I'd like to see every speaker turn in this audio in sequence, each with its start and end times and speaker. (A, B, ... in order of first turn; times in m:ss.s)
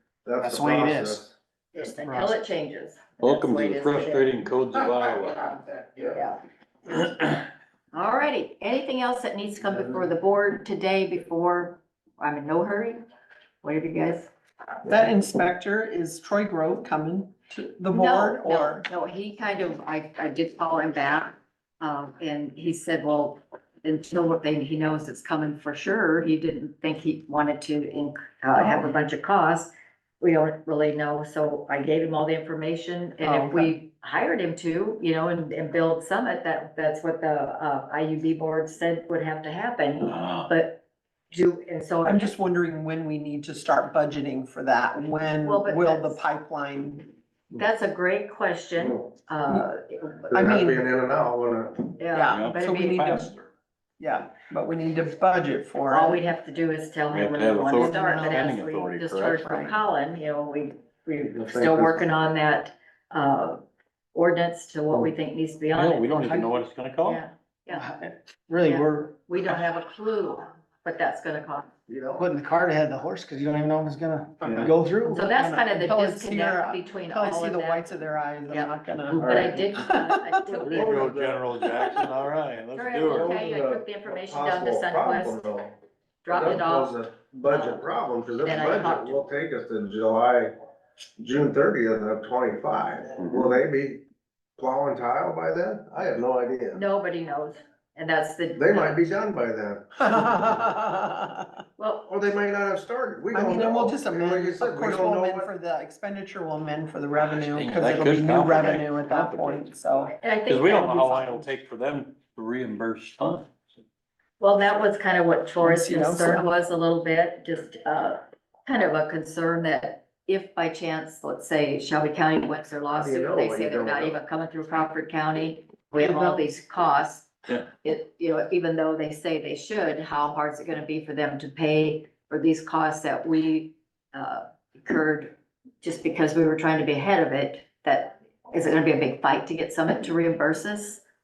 0:00.2-0:01.3 A
0:00.4-0:01.2 B
0:01.7-0:04.3 C
0:02.0-0:02.4 B
0:03.2-0:05.6 D
0:06.1-0:06.4 C
0:07.9-0:13.0 C
0:13.6-0:14.3 C
0:14.8-0:18.8 E
0:17.9-0:42.4 C
0:33.2-0:33.7 E
0:40.0-0:40.5 D
0:42.0-0:47.1 E
0:45.4-0:46.2 C
0:47.5-0:50.3 C
0:50.3-0:52.0 A
0:50.3-0:50.8 E
0:52.0-0:53.3 C
0:52.1-0:53.3 E
0:52.3-0:53.4 D
0:54.0-0:56.2 E
0:55.9-1:03.6 C
0:57.1-0:59.7 D
0:57.7-0:58.4 E
1:01.3-1:02.0 A
1:04.1-1:07.9 C
1:05.7-1:07.2 D
1:07.7-1:09.2 B
1:08.6-1:11.7 C
1:11.9-1:12.2 A
1:12.2-1:15.6 B
1:15.1-1:17.9 C
1:15.7-1:19.2 E
1:18.5-1:21.1 C
1:19.2-1:19.7 A
1:19.8-1:20.2 E
1:20.5-1:21.5 A
1:20.6-1:23.4 D
1:22.7-1:25.5 C
1:23.0-1:25.8 A
1:26.2-1:26.9 C
1:26.3-1:30.5 A
1:27.5-1:27.8 C
1:28.4-1:29.2 C
1:31.2-1:34.0 A
1:34.6-1:36.8 A
1:36.7-1:39.0 C
1:38.6-1:40.4 A
1:40.0-1:41.6 E
1:41.8-1:42.1 C
1:42.1-1:45.5 A
1:43.3-1:50.1 E
1:47.3-1:53.5 D
1:50.2-1:51.4 C
1:54.4-2:07.3 C
1:55.6-1:56.4 E
2:02.9-2:04.2 A
2:06.0-2:06.4 E
2:07.8-2:21.0 C